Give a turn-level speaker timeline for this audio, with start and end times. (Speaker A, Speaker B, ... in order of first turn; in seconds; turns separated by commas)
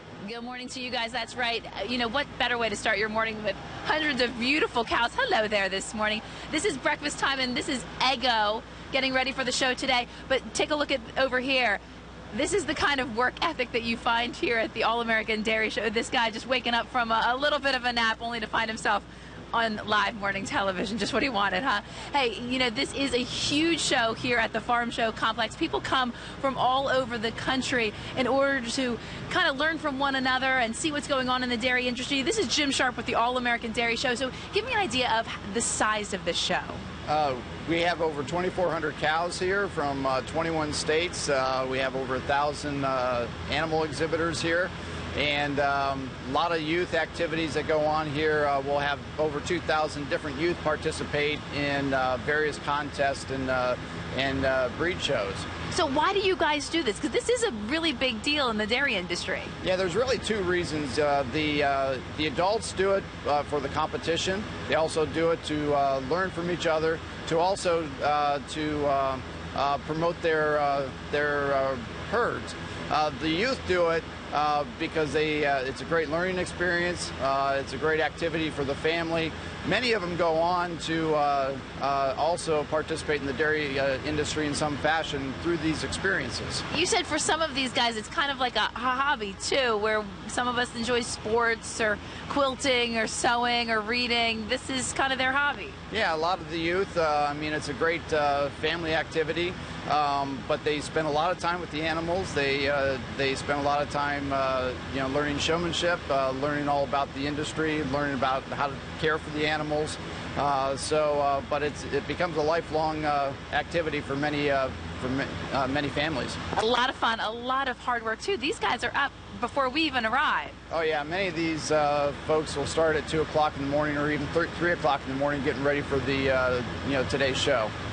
Speaker A: 0.2-36.8, Speaker B: 37.1-55.5, Speaker A: 55.7-59.5, Speaker B: 59.6-86.6, Speaker A: 86.7-95.8, Speaker B: 95.9-116.4, Speaker A: 116.5-120.6, Speaker B: 120.7-127.7